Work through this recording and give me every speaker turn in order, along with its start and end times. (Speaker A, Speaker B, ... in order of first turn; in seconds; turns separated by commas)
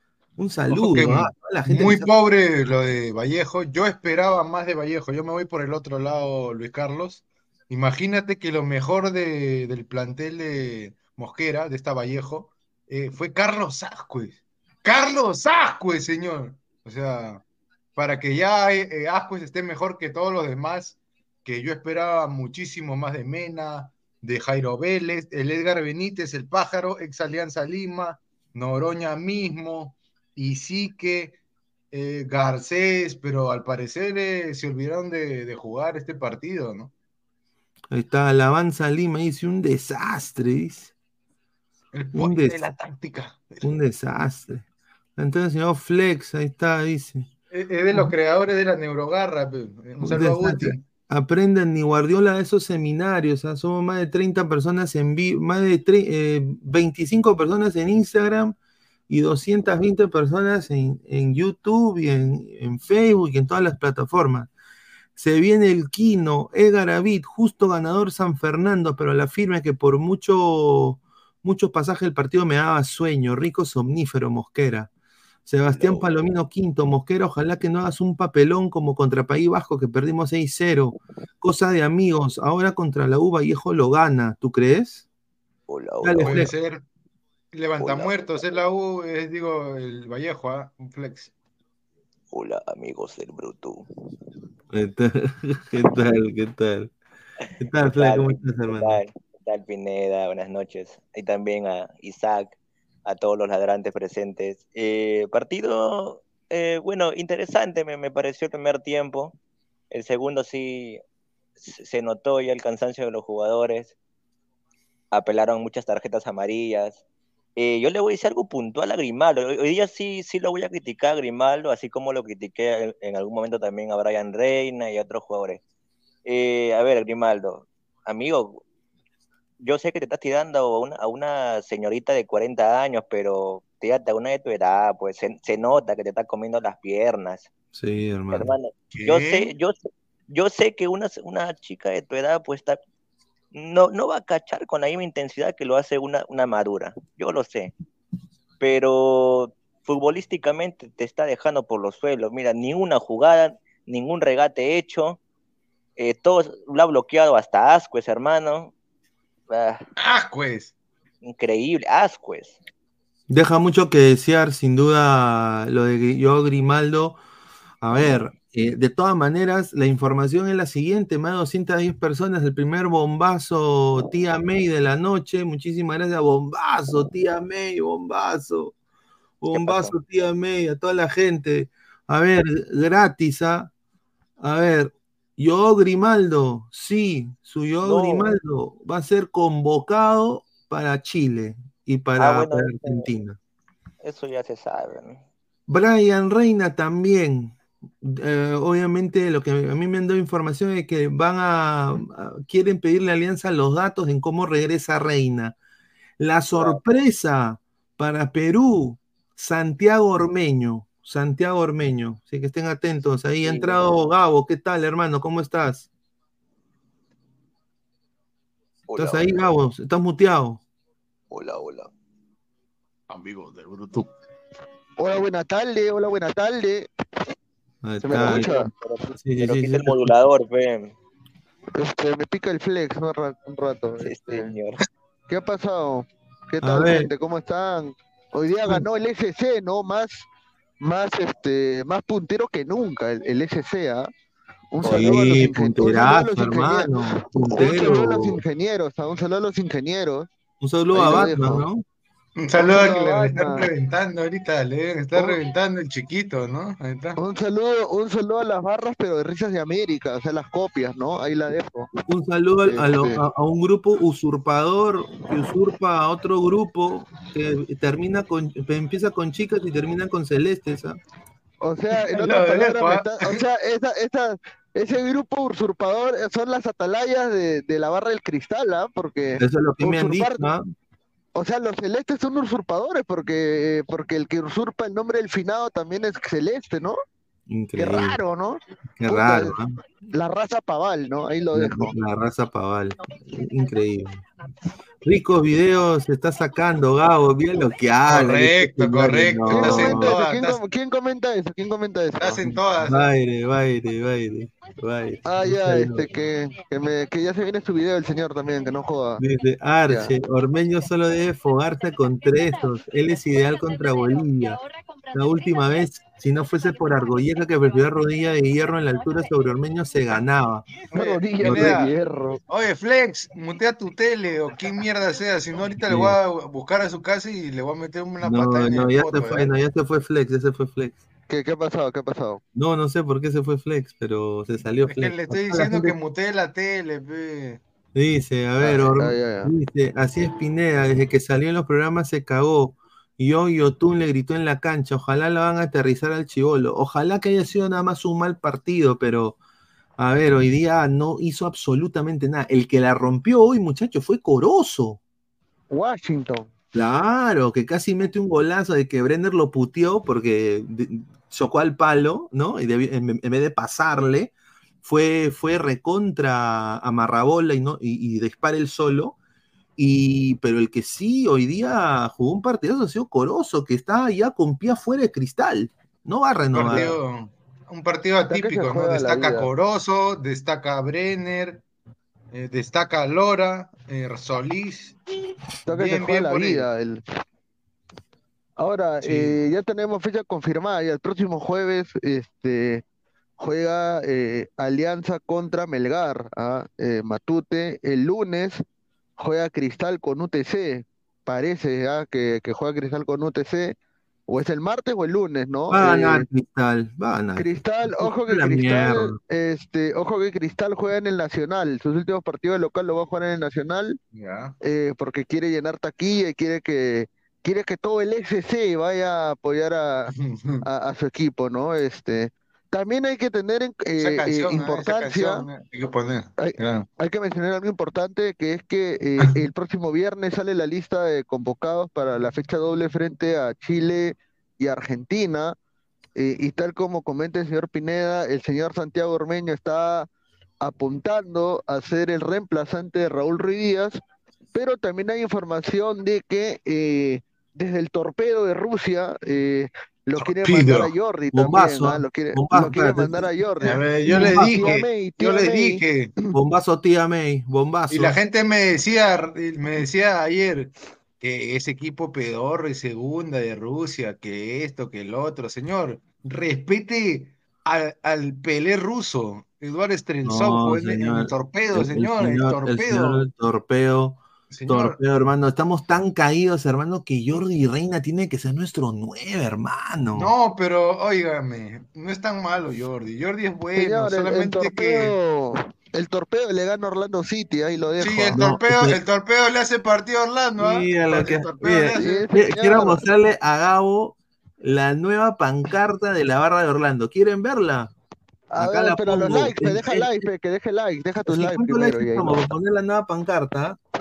Speaker A: 0.4-2.1, Speaker B: 0.7-17.4, Speaker B: 18.0-31.4, Speaker B: 31.9-36.9, Speaker A: 37.9-40.9, Speaker B: 41.9-43.6, Speaker A: 42.1-42.6, Speaker A: 43.6-44.6, Speaker A: 45.2-47.3, Speaker B: 47.5-50.8, Speaker A: 50.0-58.5, Speaker A: 59.1-64.5, Speaker A: 65.2-74.9, Speaker A: 75.5-85.1, Speaker C: 75.7-76.3, Speaker C: 85.7-86.5, Speaker A: 86.0-86.5, Speaker B: 86.2-86.8, Speaker B: 87.5-91.3, Speaker C: 87.8-88.5, Speaker C: 92.3-93.8, Speaker A: 94.7-96.9, Speaker A: 97.6-99.0, Speaker C: 97.8-109.3, Speaker C: 109.9-111.0, Speaker C: 111.6-114.0, Speaker C: 115.1-117.0, Speaker C: 117.6-125.6, Speaker C: 126.3-128.6, Speaker C: 129.6-137.5, Speaker A: 137.7-138.5, Speaker C: 138.3-142.8, Speaker B: 138.9-139.5, Speaker C: 143.5-147.7, Speaker C: 148.6-155.2, Speaker C: 156.0-158.7, Speaker C: 159.5-159.8, Speaker B: 160.0-160.7, Speaker C: 161.2-162.6, Speaker A: 163.3-167.2, Speaker A: 167.8-178.7, Speaker A: 179.4-183.7, Speaker C: 179.5-179.9, Speaker A: 184.4-193.4, Speaker C: 187.8-188.3, Speaker C: 192.2-193.1, Speaker C: 194.0-195.2, Speaker A: 195.7-205.6, Speaker A: 206.2-215.9, Speaker C: 206.5-206.8, Speaker C: 213.4-213.9, Speaker C: 218.9-219.5, Speaker A: 219.0-220.6, Speaker C: 221.3-221.9, Speaker B: 223.1-224.1, Speaker D: 225.0-226.9, Speaker A: 227.8-228.6, Speaker D: 228.0-228.7, Speaker C: 228.1-230.9, Speaker A: 229.2-230.1, Speaker D: 231.8-234.5, Speaker C: 234.0-234.8, Speaker D: 235.3-240.3, Speaker A: 236.6-237.1, Speaker D: 240.8-244.1, Speaker D: 244.7-250.3, Speaker A: 244.8-248.4, Speaker C: 244.8-245.1, Speaker A: 250.6-251.8, Speaker D: 250.9-251.7, Speaker B: 252.4-257.2, Speaker D: 252.6-253.7, Speaker D: 257.2-261.9, Speaker A: 262.1-271.0, Speaker D: 262.7-263.2, Speaker D: 271.6-280.5, Speaker B: 272.0-273.4, Speaker A: 279.4-280.7, Speaker D: 281.4-287.0, Speaker A: 287.5-288.2, Speaker D: 287.8-289.6, Speaker A: 289.0-289.8, Speaker D: 290.1-291.9, Speaker A: 291.5-294.2, Speaker A: 295.0-300.1, Speaker B: 298.1-300.6, Speaker D: 299.5-302.5, Speaker B: 302.2-303.1, Speaker A: 302.8-306.1, Speaker D: 305.2-309.2, Speaker A: 309.2-320.6, Speaker D: 309.9-310.1, Speaker B: 320.9-321.9, Speaker D: 320.9-322.4, Speaker A: 321.4-321.8, Speaker B: 322.5-329.5, Speaker A: 325.9-326.2, Speaker A: 328.2-330.9, Speaker D: 331.3-332.4, Speaker A: 332.6-335.9, Speaker B: 334.9-337.6, Speaker A: 337.9-349.4, Speaker D: 338.6-339.5, Speaker A: 350.0-355.0, Speaker D: 355.7-356.5, Speaker A: 356.7-364.3, Speaker A: 364.8-369.2, Speaker A: 369.8-377.0, Speaker B: 376.5-381.6, Speaker D: 376.7-376.9, Speaker D: 378.3-379.5, Speaker B: 382.3-385.0, Speaker D: 385.7-387.0, Speaker B: 385.7-386.7, Speaker D: 388.6-392.8, Speaker B: 389.0-389.4, Speaker D: 393.4-398.6, Speaker D: 399.2-403.8, Speaker D: 404.3-406.3, Speaker A: 405.7-409.2, Speaker D: 407.4-414.0, Speaker B: 414.1-414.6, Speaker D: 414.6-420.1, Speaker B: 420.1-420.6, Speaker D: 420.7-425.4, Speaker B: 424.0-426.9, Speaker D: 426.4-435.6, Speaker D: 436.2-440.1, Speaker D: 440.6-444.0, Speaker D: 444.5-455.8, Speaker B: 450.2-450.9, Speaker A: 451.3-453.3, Speaker B: 453.6-456.3, Speaker A: 454.1-454.7, Speaker A: 456.3-458.2, Speaker B: 457.9-473.2, Speaker A: 470.2-480.3, Speaker B: 474.5-475.0, Speaker B: 480.2-485.1, Speaker D: 483.8-488.4, Speaker B: 488.0-492.2, Speaker A: 488.3-489.0, Speaker A: 490.6-497.9, Speaker D: 492.0-493.0, Speaker D: 498.5-502.4, Speaker A: 498.6-500.3, Speaker A: 501.3-503.8